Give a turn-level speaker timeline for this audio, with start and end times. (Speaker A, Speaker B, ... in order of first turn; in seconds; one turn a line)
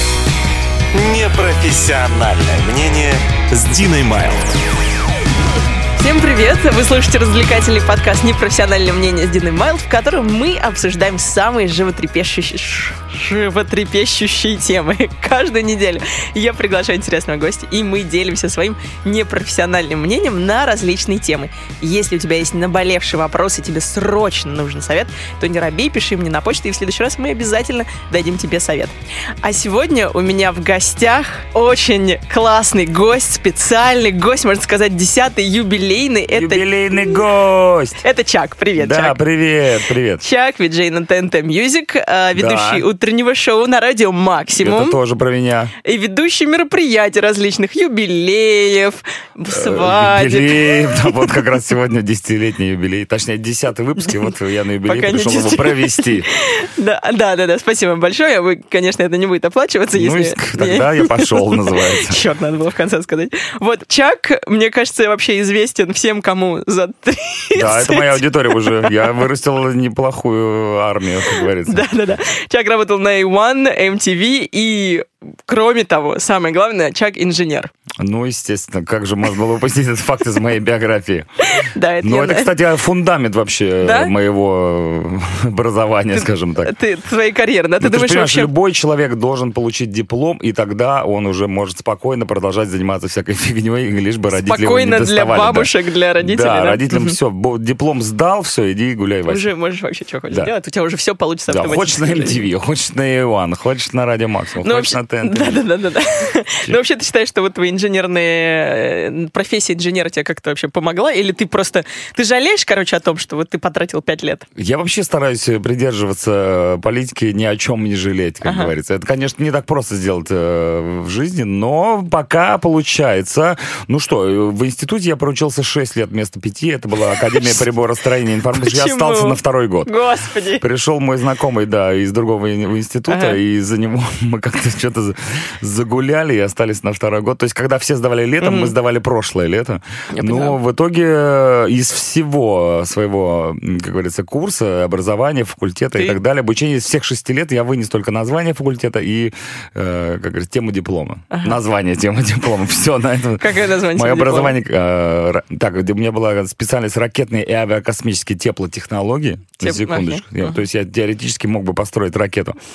Speaker A: 0.9-4.5
Speaker B: 6.0-37.2
Speaker C: 36.3-38.0
Speaker B: 38.0-39.2
Speaker C: 38.8-40.2
Speaker B: 40.2-45.0
Speaker C: 42.4-42.9
Speaker C: 44.6-45.7
Speaker B: 45.8-51.5
Speaker C: 49.5-56.3
Speaker B: 54.9-69.1
Speaker C: 59.9-62.2
Speaker C: 67.5-71.9
Speaker B: 71.3-77.7
Speaker C: 78.0-86.7
Speaker B: 81.4-82.5
Speaker B: 83.8-84.1
Speaker B: 86.1-88.5
Speaker C: 87.8-99.5
Speaker B: 94.4-97.2
Speaker B: 99.3-102.5
Speaker C: 101.5-105.7
Speaker B: 104.6-114.5
Speaker C: 114.6-129.9
Speaker B: 118.4-118.7
Speaker B: 127.1-127.6
Speaker B: 128.5-130.6
Speaker C: 130.6-162.6
Speaker B: 133.1-133.4
Speaker B: 138.4-138.7
Speaker B: 140.1-140.6
Speaker B: 151.3-151.6
Speaker B: 153.4-154.6
Speaker B: 159.6-160.6